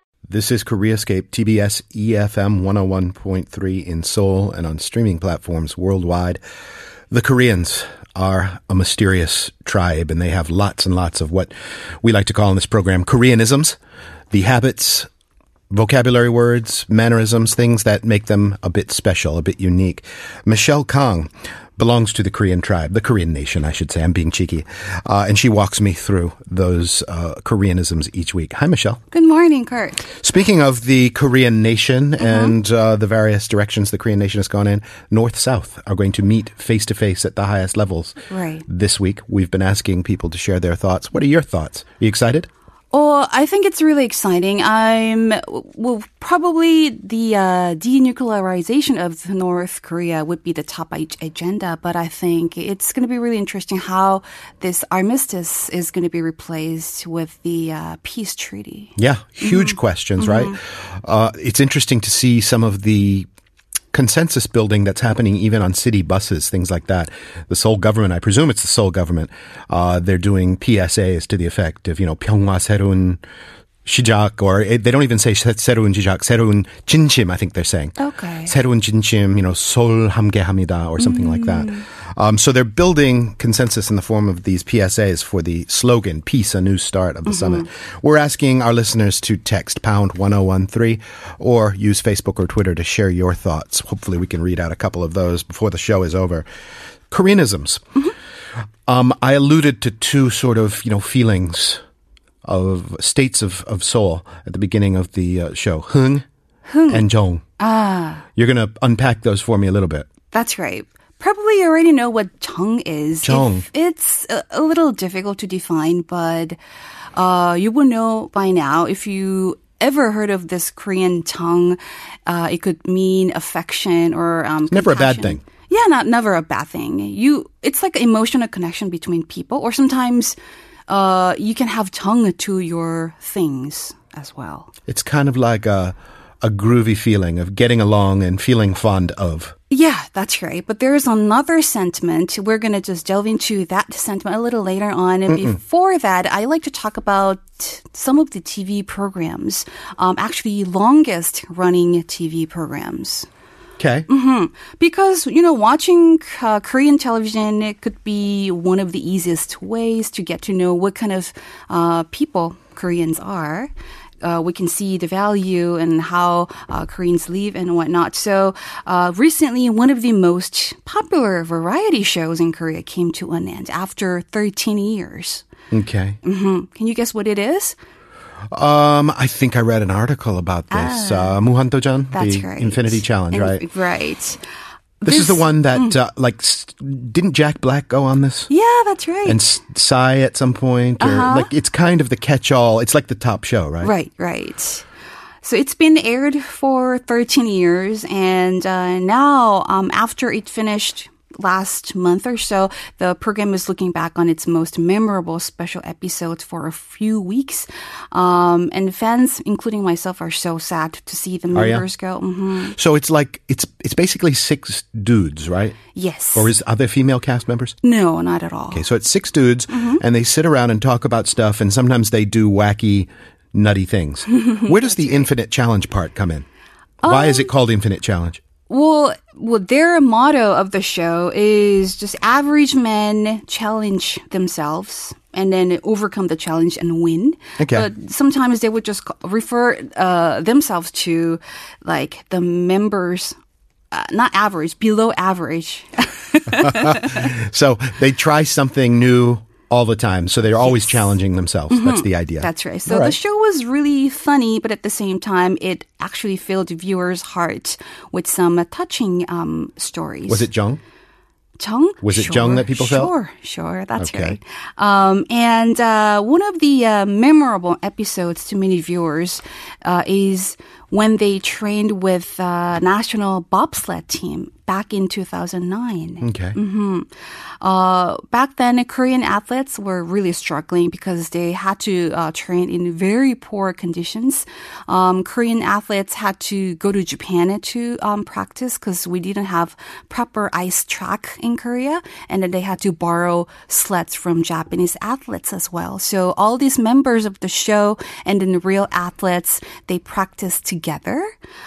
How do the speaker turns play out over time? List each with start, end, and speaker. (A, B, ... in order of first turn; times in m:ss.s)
0:00.3-0:06.4 A
0:07.1-0:13.8 A
0:14.3-0:15.1 A
0:15.7-0:29.0 A
0:29.1-0:30.1 B
0:30.2-0:42.5 A
0:32.2-0:32.6 B
0:38.3-0:38.6 B
0:42.9-1:00.6 B
0:59.0-1:03.3 A
1:03.9-1:13.2 A
1:13.8-1:36.5 A
1:18.0-1:18.6 B
1:21.0-1:21.8 B
1:27.3-1:27.7 B
1:37.1-1:38.0 A
1:38.9-1:41.8 A
1:42.4-1:46.2 A
1:46.6-1:47.1 B
1:46.9-1:47.4 A
1:47.6-1:48.2 B
1:48.4-1:50.1 A
1:50.3-1:56.6 B
1:53.2-1:53.6 A
1:57.2-2:10.4 B
2:04.7-2:05.4 A
2:10.9-2:14.7 B
2:14.9-2:19.5 A
2:19.7-2:33.3 B
2:33.8-2:34.1 A
2:34.1-2:55.4 B
2:55.7-2:56.2 A
2:56.2-2:57.8 B
2:58.5-3:03.6 A
3:00.7-3:01.4 B
3:02.1-3:04.4 B
3:05.0-3:06.0 B
3:05.0-3:08.5 A
3:08.5-3:09.4 B
3:09.2-3:13.9 A
3:11.0-3:11.5 B
3:13.8-3:14.9 B
3:15.4-3:32.8 B
3:31.5-3:31.9 A
3:32.7-3:35.8 A
3:35.9-3:36.5 B
3:36.4-3:37.8 A
3:37.8-3:38.8 B
3:38.7-3:46.4 A
3:39.7-3:40.0 B
3:44.4-3:45.3 B
3:47.0-3:47.5 B
3:47.0-3:48.4 A
3:48.7-4:03.4 B
3:57.6-3:57.9 A
4:03.9-4:07.2 B
4:06.6-4:13.2 A
4:10.6-4:11.0 B
4:11.7-4:20.5 B
4:20.3-4:20.8 A
4:21.6-4:37.1 B
4:22.0-4:23.1 A
4:24.0-4:24.4 A
4:36.2-4:36.6 A
4:37.6-5:01.3 B